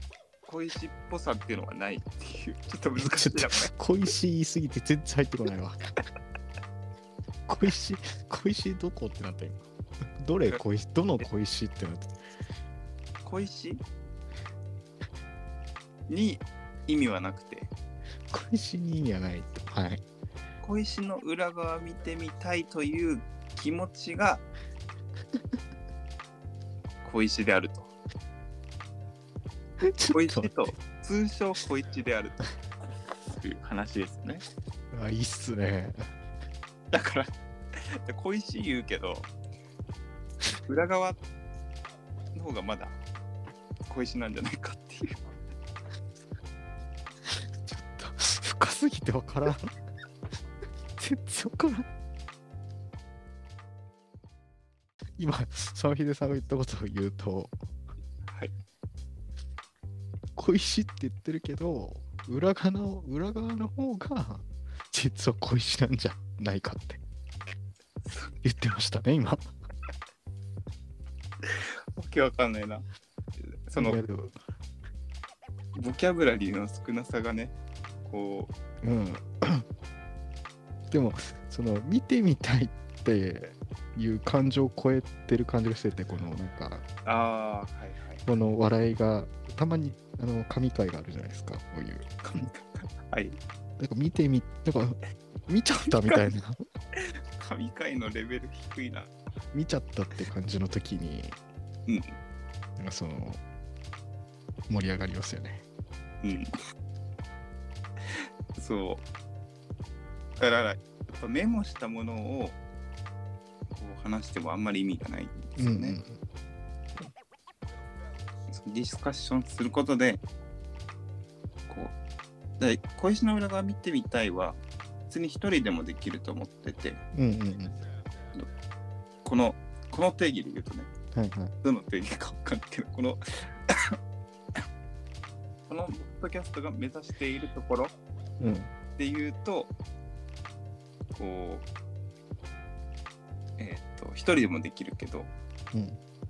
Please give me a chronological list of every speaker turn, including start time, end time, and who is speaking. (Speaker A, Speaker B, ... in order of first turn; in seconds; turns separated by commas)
Speaker A: 0.5-3.7, Speaker B: 3.0-5.9, Speaker B: 7.5-9.7, Speaker B: 10.2-12.1, Speaker A: 13.2-13.8, Speaker A: 16.1-17.7, Speaker B: 18.3-20.0, Speaker A: 20.6-24.4, Speaker A: 27.0-27.9, Speaker B: 29.8-30.5, Speaker A: 30.1-32.5, Speaker A: 33.3-34.4, Speaker B: 34.9-36.1, Speaker A: 36.9-37.3, Speaker A: 38.0-39.3, Speaker A: 40.6-41.2, Speaker A: 42.3-43.0, Speaker A: 43.9-45.2, Speaker B: 47.2-49.7, Speaker B: 51.0-51.9, Speaker B: 55.2-57.5, Speaker B: 60.4-67.0, Speaker B: 68.4-69.4, Speaker A: 71.5-72.8, Speaker A: 73.7-74.0, Speaker B: 73.8-74.4, Speaker A: 75.7-78.5, Speaker B: 78.8-79.6, Speaker B: 80.9-86.8, Speaker A: 87.0-88.3, Speaker B: 88.2-92.1, Speaker A: 92.2-93.4, Speaker B: 93.8-96.6, Speaker A: 97.4-99.1, Speaker B: 99.5-101.4, Speaker A: 101.9-102.1, Speaker B: 102.8-103.4, Speaker B: 104.7-105.6, Speaker A: 106.2-106.5, Speaker A: 108.1-109.0, Speaker A: 110.4-112.6, Speaker A: 113.7-116.0, Speaker B: 115.6-116.2, Speaker A: 118.5-120.2, Speaker A: 121.7-121.9, Speaker A: 122.6-127.0, Speaker B: 127.1-127.8, Speaker A: 129.2-130.9, Speaker B: 131.1-131.5, Speaker A: 131.6-133.7, Speaker A: 135.7-137.9, Speaker B: 138.4-138.7, Speaker A: 138.9-139.7, Speaker A: 141.1-141.7, Speaker A: 143.6-145.3, Speaker B: 145.7-146.0